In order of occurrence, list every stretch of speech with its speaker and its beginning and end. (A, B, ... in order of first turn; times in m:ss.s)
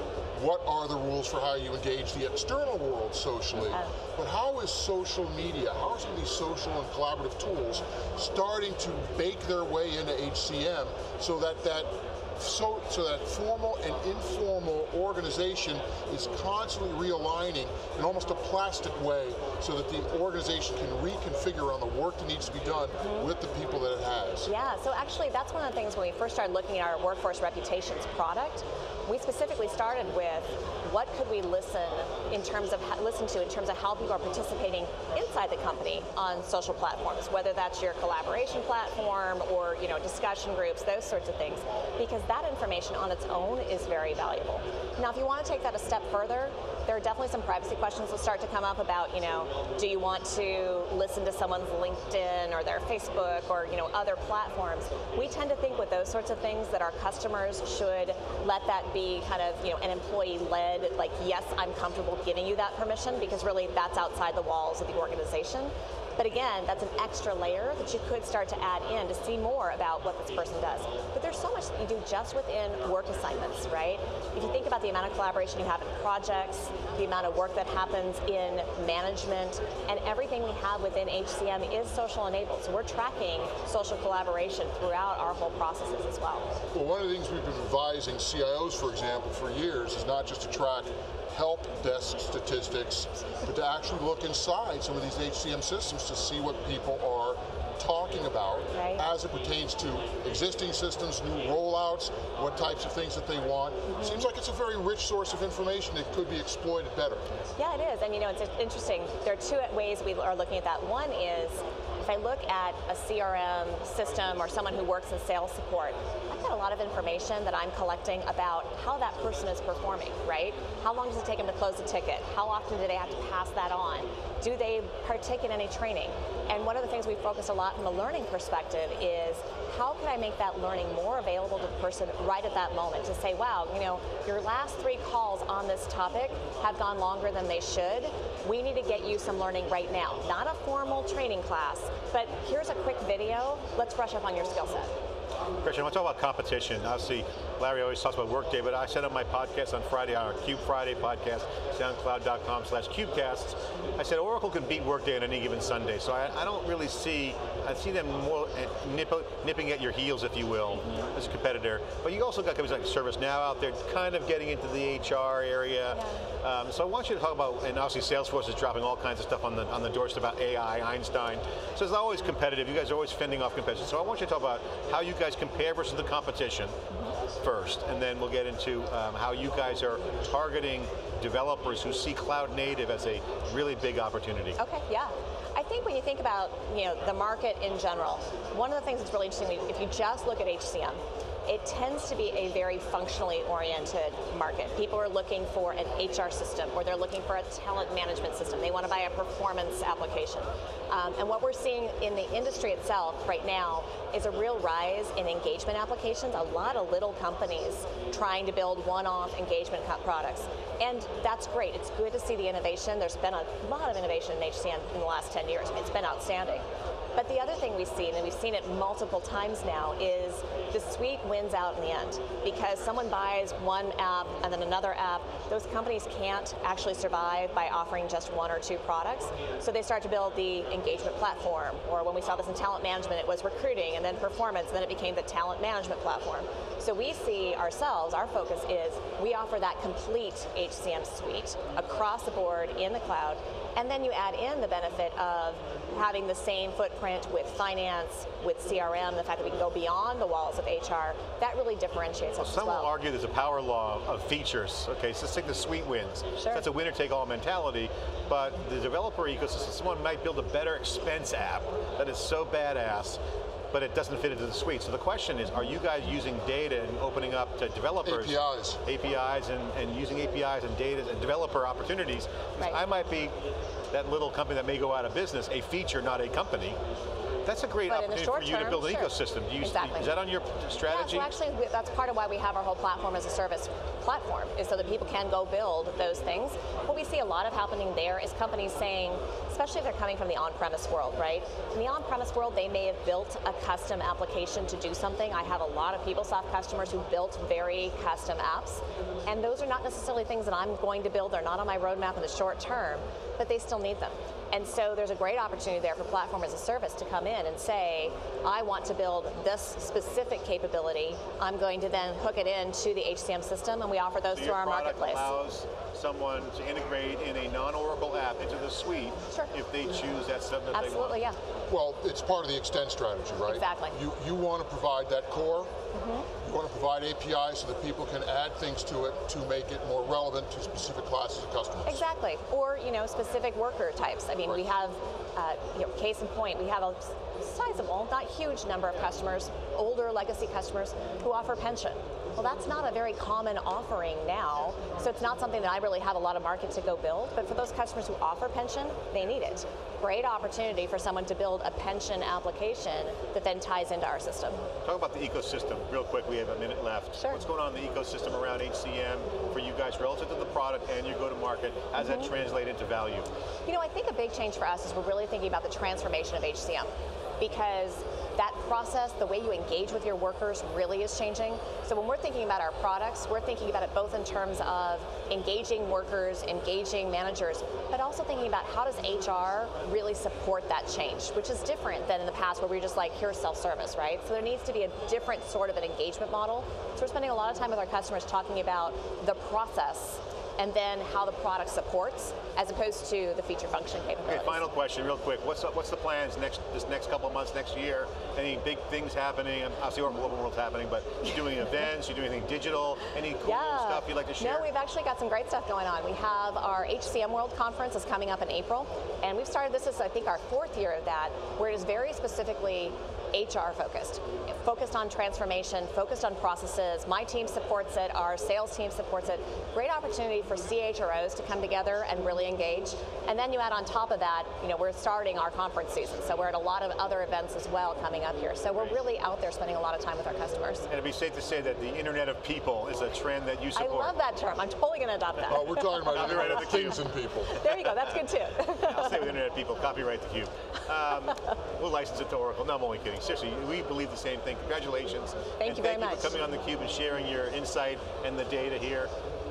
0:00.4-0:24.5 A
0:03.7-0:04.0 B
0:23.0-0:23.3 B
0:24.5-1:26.5 B
1:26.7-1:47.3 A
1:38.7-1:39.0 B
1:43.9-1:44.2 B
1:47.6-2:24.9 B
2:25.6-2:56.8 C
2:45.9-2:46.2 B
2:57.4-3:04.6 C
3:04.6-4:12.9 B
4:12.4-4:23.2 C
4:16.4-4:16.6 B
4:23.7-4:33.4 C
4:28.0-4:28.8 A
4:33.9-4:36.8 C
4:37.4-4:41.3 C
4:37.9-4:40.1 B
4:40.9-5:15.3 B
5:14.3-5:21.2 C
5:20.7-5:21.4 B
5:21.7-5:25.7 A
5:23.4-5:24.0 B
5:25.9-5:26.3 B
5:26.4-5:32.0 A
5:31.8-5:54.6 B
5:54.8-6:03.3 C
5:57.2-5:57.4 B
6:02.0-6:02.3 B
6:03.6-6:34.7 B
6:34.2-6:44.7 C
6:43.4-7:10.9 B
7:10.9-7:14.1 C
7:13.7-7:16.8 B
7:15.5-7:17.6 A
7:16.1-7:17.1 C
7:17.4-7:19.4 B
7:17.6-7:18.1 C
7:18.8-7:29.1 C
7:25.6-7:26.4 B